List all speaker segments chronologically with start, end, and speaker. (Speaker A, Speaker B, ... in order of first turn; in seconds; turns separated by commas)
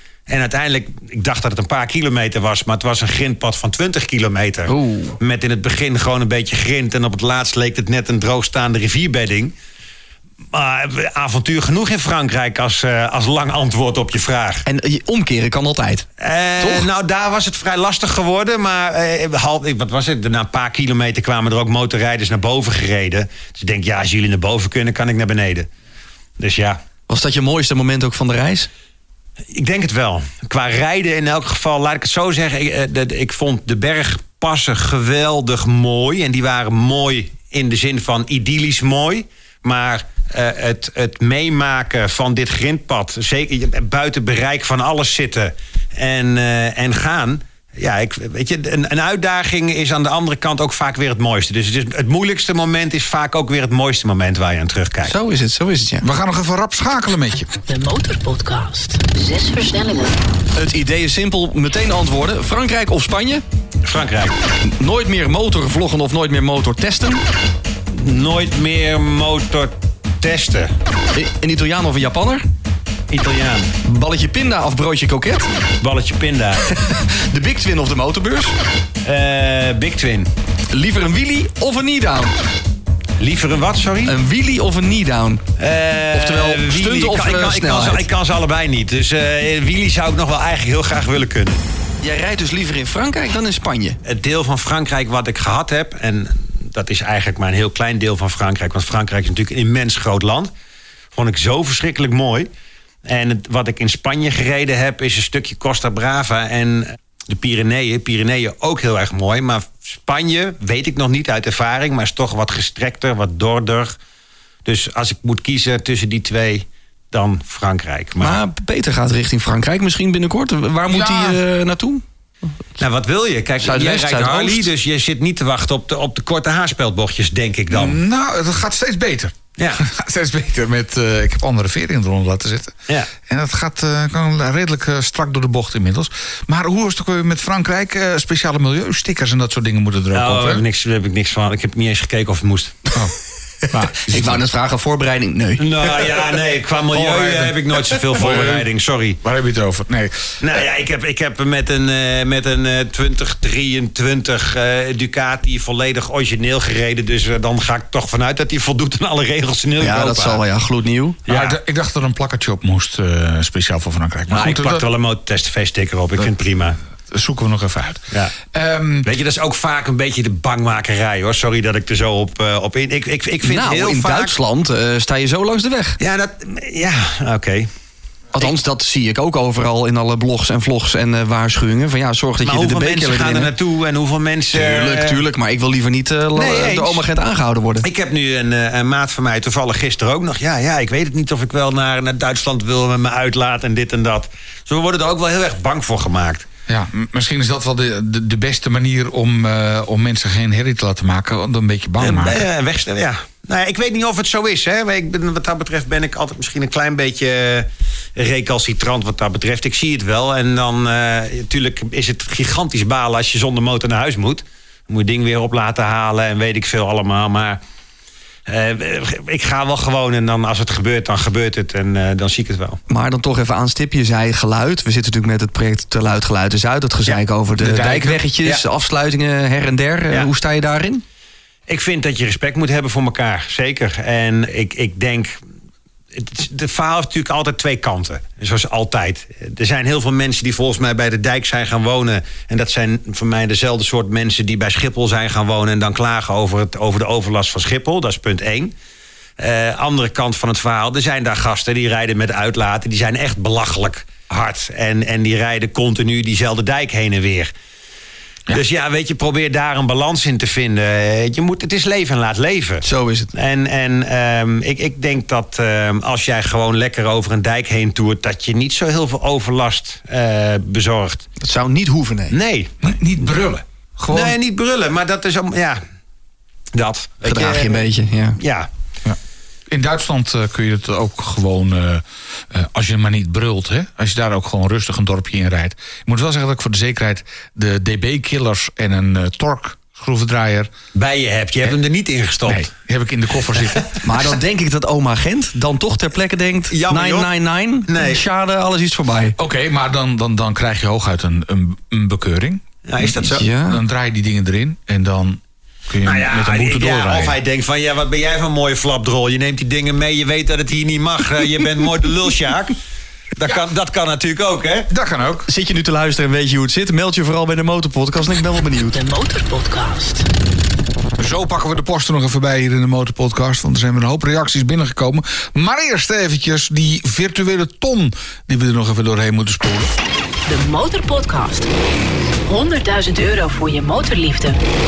Speaker A: 0.3-9.5, Speaker B: 4.7-5.2, Speaker A: 10.5-14.6, Speaker B: 14.7-16.1, Speaker A: 16.2-25.7, Speaker B: 16.6-16.9, Speaker A: 26.4-26.8, Speaker B: 27.1-28.7, Speaker A: 29.5-55.1, Speaker B: 55.0-56.0, Speaker C: 56.0-57.5, Speaker D: 57.7-60.2, Speaker B: 60.5-63.4, Speaker A: 63.8-64.3, Speaker B: 64.8-67.2, Speaker A: 67.9-70.7, Speaker B: 71.1-72.4, Speaker A: 73.1-73.7, Speaker B: 73.8-75.5, Speaker A: 75.8-76.7, Speaker B: 76.7-78.5, Speaker A: 79.0-80.3, Speaker B: 80.7-82.3, Speaker A: 83.2-84.2, Speaker B: 84.0-85.4, Speaker A: 85.6-91.6, Speaker B: 86.1-88.0, Speaker B: 92.0-94.0, Speaker A: 94.0-100.5, Speaker A: 101.1-102.5, Speaker A: 103.1-114.0, Speaker A: 114.6-118.4, Speaker B: 118.2-122.0, Speaker C: 120.9-121.4, Speaker A: 122.8-128.0, Speaker B: 123.6-124.7, Speaker C: 127.7-140.6, Speaker A: 129.6-129.8, Speaker A: 140.1-142.8, Speaker B: 143.7-146.1, Speaker C: 143.7-144.4, Speaker A: 145.6-149.2, Speaker C: 146.9-147.6, Speaker C: 148.2-148.7, Speaker C: 149.2-150.3, Speaker A: 150.4-160.4, Speaker B: 159.8-161.2, Speaker A: 161.3-161.6, Speaker C: 161.3-164.9, Speaker A: 164.3-166.8, Speaker C: 167.1-169.1, Speaker A: 169.0-174.3, Speaker B: 173.4-176.0, Speaker A: 176.0-177.7, Speaker B: 178.3-183.5, Speaker A: 182.4-185.2, Speaker B: 184.5-187.8, Speaker A: 186.3-187.0, Speaker A: 187.8-196.5, Speaker C: 196.7-202.4, Speaker A: 202.0-217.6, Speaker A: 218.5-222.8, Speaker B: 222.9-231.0, Speaker C: 227.6-228.2, Speaker A: 231.7-235.4, Speaker A: 236.1-248.7, Speaker A: 249.4-257.5, Speaker A: 258.5-271.2, Speaker B: 262.8-263.3, Speaker B: 271.4-272.3, Speaker A: 272.3-273.0, Speaker C: 272.8-274.4, Speaker A: 274.1-275.8, Speaker A: 276.7-278.7, Speaker B: 277.2-278.4, Speaker C: 279.7-290.7, Speaker A: 290.9-292.7, Speaker C: 292.5-293.8, Speaker B: 294.0-299.4, Speaker A: 296.7-297.3, Speaker A: 297.9-298.2, Speaker C: 299.4-302.6, Speaker A: 302.8-303.4, Speaker B: 303.3-303.8, Speaker C: 303.6-307.4, Speaker A: 306.0-312.8, Speaker A: 313.4-314.9, Speaker C: 314.9-315.5, Speaker B: 315.5-319.0, Speaker D: 318.9-320.3, Speaker C: 321.2-329.9, Speaker D: 330.5-331.7, Speaker D: 332.5-334.6